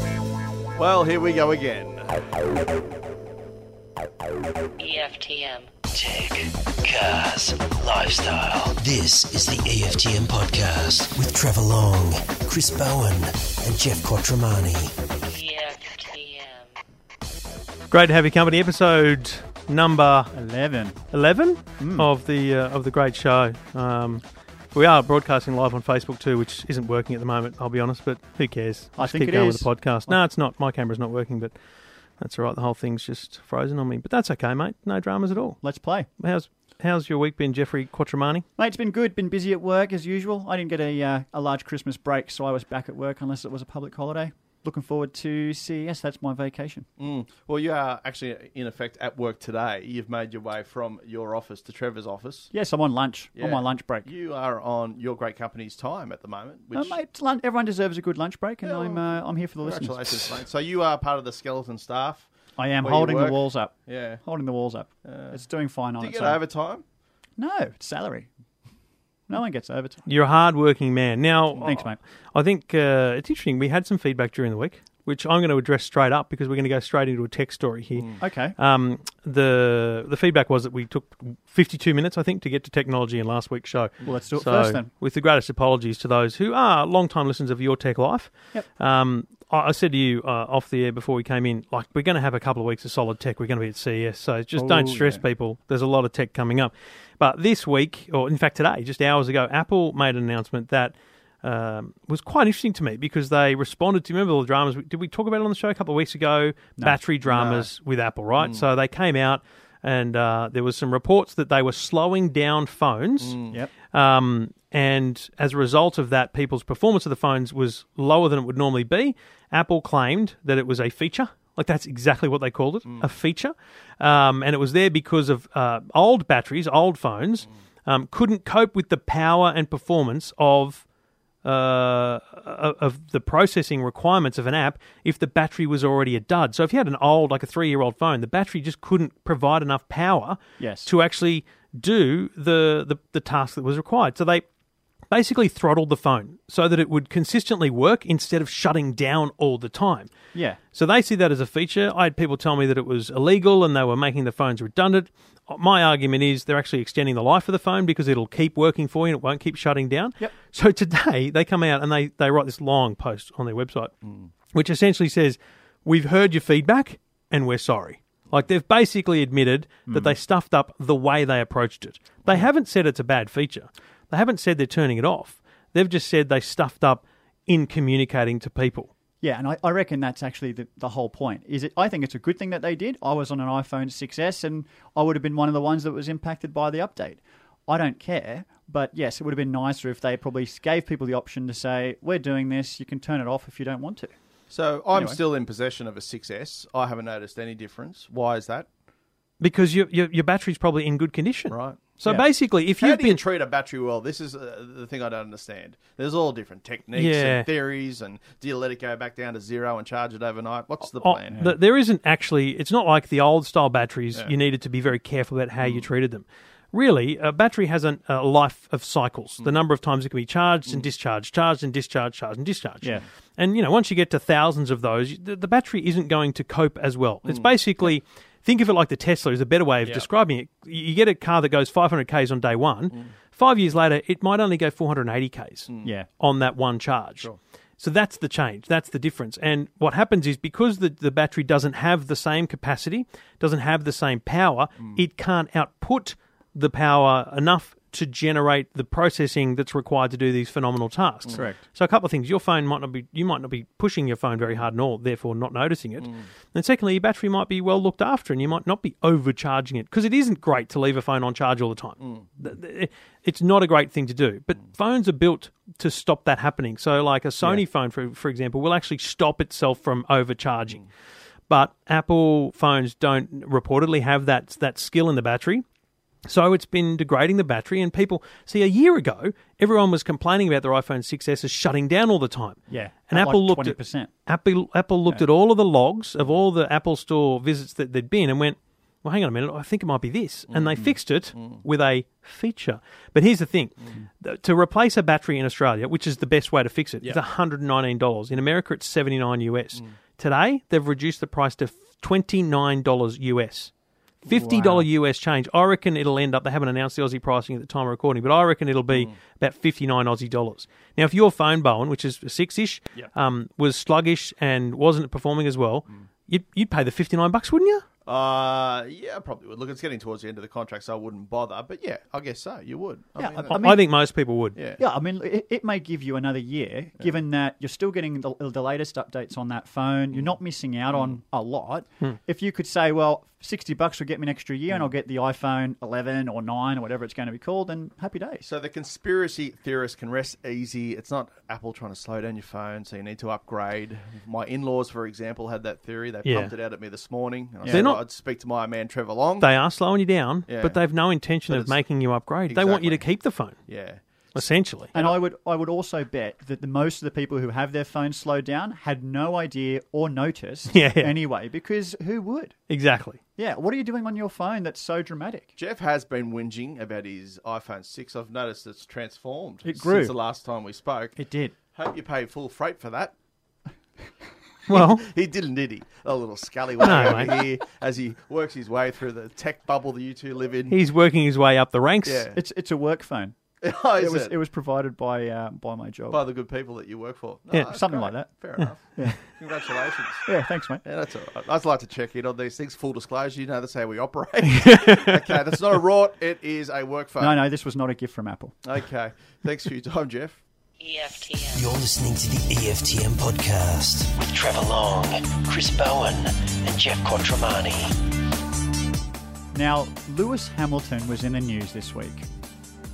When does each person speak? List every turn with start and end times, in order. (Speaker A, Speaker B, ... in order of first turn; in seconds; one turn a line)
Speaker A: 0.8-2.2
Speaker B: 4.8-5.7
Speaker C: 5.9-15.0
Speaker B: 15.2-16.7
Speaker D: 17.9-20.3
Speaker E: 20.3-21.0
Speaker D: 21.1-31.5
Speaker E: 21.8-22.1
Speaker E: 29.0-30.2
Speaker D: 32.2-35.6
Speaker E: 35.6-36.1
Speaker D: 36.2-38.4
Speaker E: 38.6-46.9
Speaker A: 47.0-52.5
Speaker E: 52.5-54.1
Speaker A: 53.4-57.0
Speaker E: 56.7-60.4
Speaker A: 58.6-64.2
Speaker E: 62.6-66.4
Speaker A: 65.0-65.4
Speaker A: 66.0-66.8
Speaker E: 67.4-68.3
Speaker E: 69.3-70.1
Speaker D: 70.1-113.4
Speaker E: 71.5-72.0
Speaker E: 78.2-78.5
Speaker E: 84.0-84.9
Speaker E: 94.5-95.2
Speaker A: 107.3-107.7
Speaker A: 108.4-108.6
Speaker A: 113.2-113.6
Speaker D: 113.9-130.8
Speaker D: 131.4-144.4
Speaker E: 140.6-140.9
Speaker D: 145.1-150.1
Speaker E: 150.3-150.6
Speaker D: 150.7-163.9
Speaker A: 164.0-164.3
Speaker D: 164.5-178.9
Speaker E: 169.9-170.2
Speaker E: 179.2-194.1
Speaker A: 194.5-198.7
Speaker E: 194.9-195.2
Speaker D: 199.4-203.2
Speaker A: 201.5-201.9
Speaker A: 202.8-211.4
Speaker D: 206.9-207.4
Speaker D: 211.0-270.8
Speaker A: 215.6-215.9
Speaker A: 227.2-227.5
Speaker A: 229.8-230.1
Speaker A: 235.7-235.9
Speaker E: 251.3-251.6
Speaker A: 262.0-262.3
Speaker D: 271.5-275.6
Speaker D: 276.2-303.7
Speaker E: 282.7-284.1
Speaker A: 290.5-291.6
Speaker D: 304.2-317.8
Speaker E: 304.3-304.9
Speaker A: 318.1-323.6
Speaker E: 323.2-323.8
Speaker D: 323.5-324.6
Speaker A: 324.6-324.8
Speaker E: 324.8-338.5
Speaker A: 330.9-331.2
Speaker A: 338.4-349.5
Speaker D: 346.2-346.5
Speaker E: 347.6-347.9
Speaker D: 347.7-348.0
Speaker D: 349.4-353.6
Speaker A: 350.5-351.8
Speaker A: 352.5-353.0
Speaker A: 353.6-354.0
Speaker D: 354.3-354.9
Speaker E: 354.9-362.6
Speaker D: 360.7-361.1
Speaker D: 362.7-363.2
Speaker E: 363.4-365.5
Speaker A: 365.6-371.2
Speaker E: 369.6-370.1
Speaker E: 371.2-371.5
Speaker A: 371.7-373.1
Speaker D: 374.7-375.0
Speaker A: 374.7-380.8
Speaker D: 376.8-377.4
Speaker E: 376.9-377.4
Speaker D: 380.7-382.2
Speaker A: 382.0-382.4
Speaker E: 382.3-383.4
Speaker A: 383.6-384.3
Speaker E: 383.9-386.2
Speaker A: 386.1-390.3
Speaker E: 387.7-388.3
Speaker E: 388.9-389.2
Speaker E: 390.2-390.8
Speaker A: 390.8-397.4
Speaker D: 394.5-395.3
Speaker E: 397.2-398.6
Speaker A: 398.6-400.4
Speaker B: 400.8-401.7
Speaker C: 401.5-407.9
Speaker E: 409.5-412.3